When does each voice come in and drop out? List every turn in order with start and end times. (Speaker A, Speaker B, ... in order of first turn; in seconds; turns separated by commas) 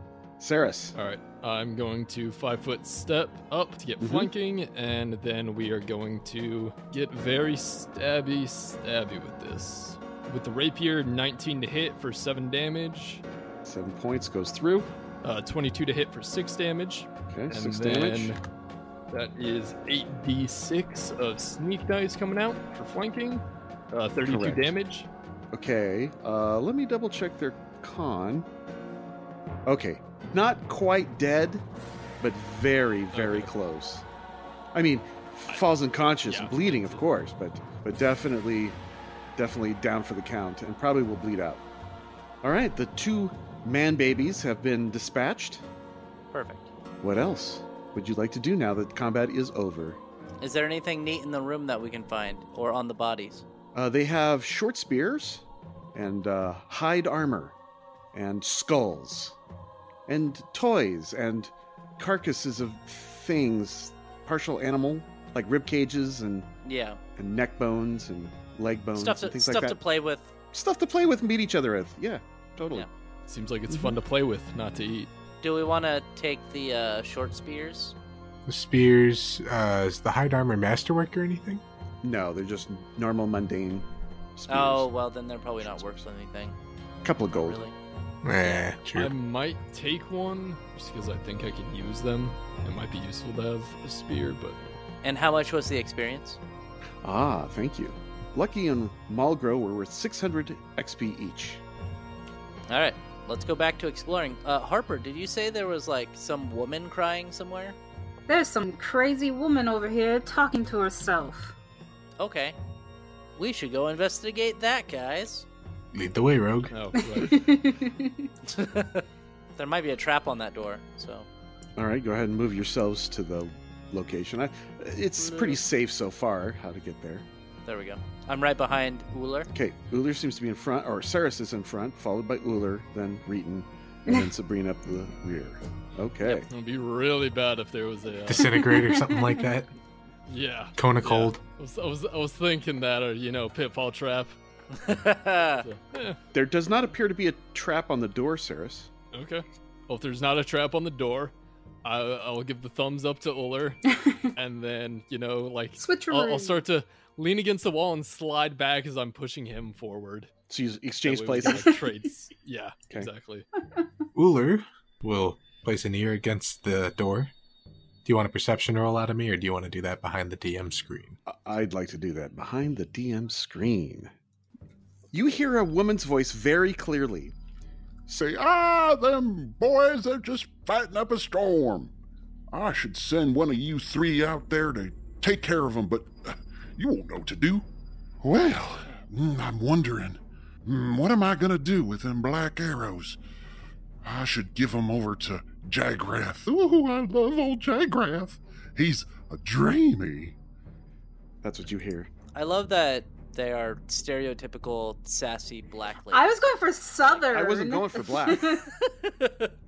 Speaker A: 0.4-0.9, Speaker B: 0.9-13.2, Speaker A: 4.0-4.3, Speaker A: 13.6-14.9, Speaker B: 15.2-18.4, Speaker A: 17.3-18.4, Speaker B: 19.1-25.1, Speaker A: 24.2-24.7, Speaker A: 25.5-28.5, Speaker A: 29.6-31.6, Speaker A: 32.2-34.0, Speaker B: 33.1-33.5, Speaker A: 34.7-38.8, Speaker B: 36.3-37.0, Speaker A: 39.4-41.6, Speaker A: 42.4-45.6, Speaker C: 46.3-46.7, Speaker A: 47.0-50.0, Speaker C: 50.4-53.4, Speaker A: 53.7-57.5, Speaker A: 58.1-59.4, Speaker A: 60.1-66.5, Speaker C: 66.6-67.0, Speaker A: 67.2-69.8, Speaker C: 69.0-70.3, Speaker A: 70.5-72.8, Speaker B: 73.3-75.1, Speaker A: 73.7-73.9, Speaker C: 75.4-77.9, Speaker D: 78.5-81.6, Speaker A: 82.0-84.9, Speaker C: 84.5-86.6, Speaker A: 85.6-85.9, Speaker A: 87.0-87.6, Speaker C: 87.3-87.8, Speaker D: 88.2-89.1, Speaker C: 88.4-88.7, Speaker B: 88.9-94.8, Speaker C: 95.0-96.4, Speaker A: 97.0-101.6, Speaker C: 102.7-107.8, Speaker E: 108.3-111.5, Speaker C: 112.2-112.6, Speaker C: 113.4-115.5, Speaker D: 115.9-116.7, Speaker B: 116.7-117.5, Speaker E: 117.0-118.3, Speaker C: 118.5-121.3, Speaker A: 121.8-127.2, Speaker C: 125.2-125.6, Speaker C: 127.6-129.5, Speaker A: 129.5-136.5, Speaker B: 136.5-138.6, Speaker D: 138.2-139.7, Speaker E: 138.5-139.4, Speaker B: 140.3-144.4, Speaker D: 140.8-141.4, Speaker C: 144.7-145.6, Speaker B: 145.6-146.2, Speaker A: 146.3-148.9, Speaker B: 149.1-151.3, Speaker B: 151.8-160.3, Speaker E: 155.8-156.6, Speaker A: 160.5-161.8, Speaker B: 161.0-163.5, Speaker D: 164.1-167.3, Speaker D: 168.0-171.2, Speaker A: 171.3-174.1, Speaker A: 175.1-177.3, Speaker F: 178.1-181.9, Speaker F: 182.5-187.7, Speaker F: 188.2-193.2, Speaker F: 194.0-200.3, Speaker A: 201.4-202.1, Speaker C: 202.3-206.3, Speaker E: 206.1-208.7, Speaker A: 207.3-208.6, Speaker C: 208.7-209.5